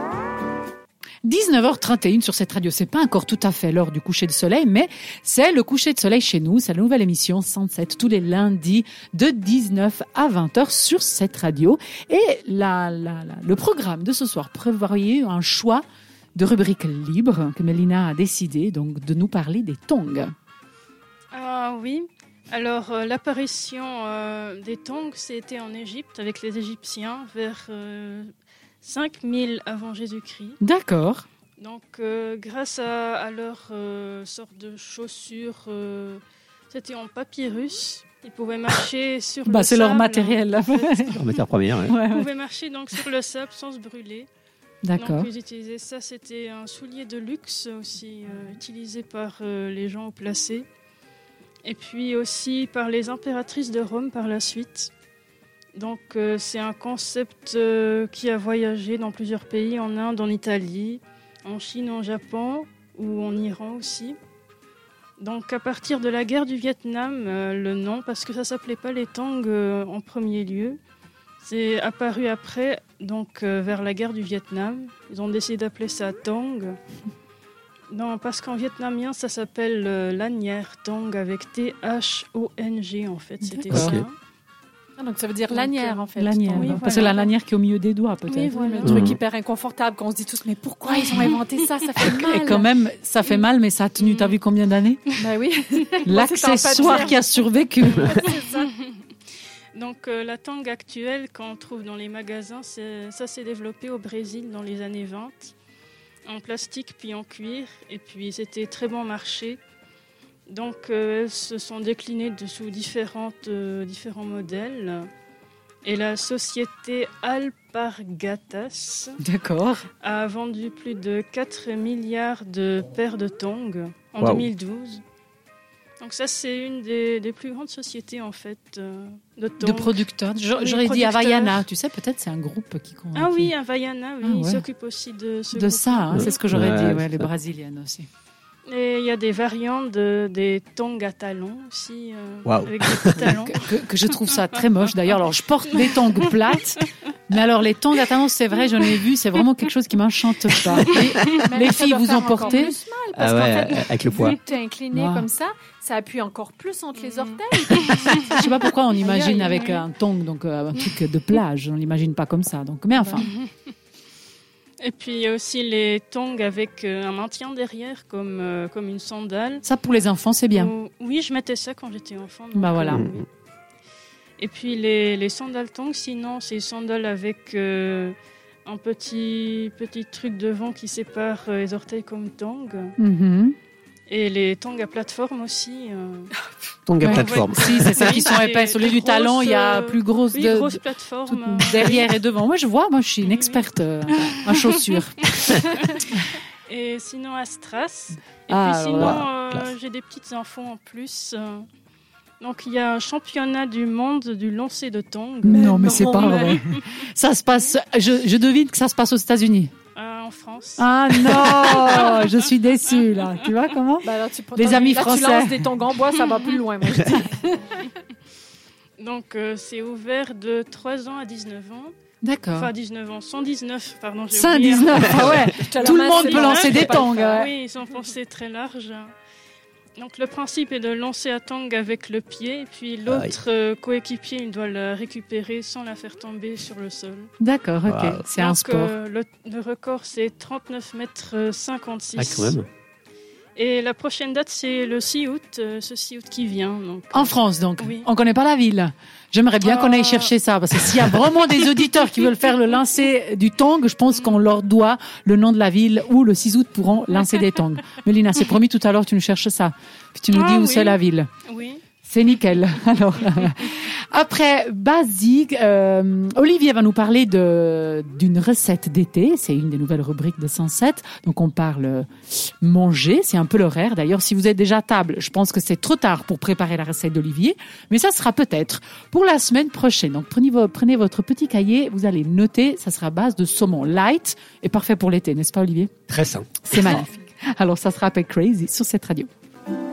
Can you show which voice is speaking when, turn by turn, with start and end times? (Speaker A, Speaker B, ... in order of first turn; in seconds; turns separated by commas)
Speaker A: 1.2-15.8, Speaker A: 16.4-20.3, Speaker B: 21.3-30.6, Speaker A: 30.6-31.3, Speaker B: 31.6-41.4, Speaker A: 39.5-41.2, Speaker C: 41.1-42.0, Speaker A: 41.9-42.3, Speaker B: 42.1-44.3, Speaker A: 44.8-45.3, Speaker B: 45.0-50.7, Speaker B: 51.6-54.9, Speaker B: 55.8-64.2, Speaker B: 65.2-70.8, Speaker B: 71.4-76.8, Speaker B: 77.9-84.1, Speaker A: 83.4-84.0, Speaker C: 83.7-84.0, Speaker D: 85.0-87.1, Speaker B: 85.5-87.3, Speaker A: 86.1-88.8, Speaker D: 88.3-92.7, Speaker B: 88.5-89.1, Speaker C: 88.8-89.2, Speaker A: 90.9-91.4, Speaker A: 92.0-95.1, Speaker B: 94.0-94.3, Speaker D: 95.2-97.2, Speaker A: 96.0-98.2, Speaker B: 96.8-97.2, Speaker B: 97.8-99.1, Speaker D: 98.1-98.7, Speaker B: 99.7-105.5, Speaker B: 106.2-109.6, Speaker B: 110.5-115.1, Speaker B: 115.8-119.1, Speaker A: 119.2-119.8, Speaker B: 120.0-125.0, Speaker C: 124.2-124.5, Speaker B: 126.0-131.6, Speaker A: 129.6-133.5, Speaker B: 133.2-136.4, Speaker A: 134.2-134.7, Speaker A: 135.5-138.1, Speaker C: 136.1-137.3, Speaker B: 138.7-143.7, Speaker C: 142.4-143.3, Speaker A: 143.2-152.7, Speaker B: 144.3-144.6, Speaker B: 145.8-146.8, Speaker B: 150.8-151.3, Speaker D: 150.8-158.4, Speaker C: 153.1-154.4, Speaker A: 154.9-155.3, Speaker B: 157.0-158.2, Speaker A: 158.3-163.3, Speaker D: 158.9-159.8, Speaker B: 159.5-159.8, Speaker B: 163.2-163.5, Speaker B: 164.8-169.7, Speaker A: 169.6-170.7, Speaker B: 170.5-173.3, Speaker A: 172.6-173.0, Speaker B: 174.4-182.9, Speaker A: 183.0-183.6, Speaker B: 184.1-186.3, Speaker C: 186.9-188.2, Speaker B: 187.0-192.1, Speaker A: 187.0-195.9, Speaker B: 193.2-196.1, Speaker B: 196.7-201.7, Speaker A: 198.5-199.2, Speaker C: 199.0-199.7, Speaker B: 202.4-207.0, Speaker A: 205.4-209.7, Speaker B: 209.9-213.3, Speaker A: 210.8-215.7, Speaker D: 214.0-217.9, Speaker B: 219.0-221.9, Speaker A: 222.2-222.7, Speaker B: 222.5-229.1, Speaker A: 224.3-227.5, Speaker D: 225.6-227.5, Speaker B: 230.0-237.3, Speaker C: 233.1-233.4, Speaker A: 237.4-238.9, Speaker C: 237.9-238.2, Speaker B: 238.3-242.6, Speaker C: 242.2-242.7, Speaker B: 243.6-248.1, Speaker A: 247.1-261.3, Speaker B: 249.6-250.3, Speaker B: 254.1-254.4, Speaker B: 260.3-261.8, Speaker A: 262.0-286.0, Speaker C: 286.1-286.8, Speaker A: 286.6-289.3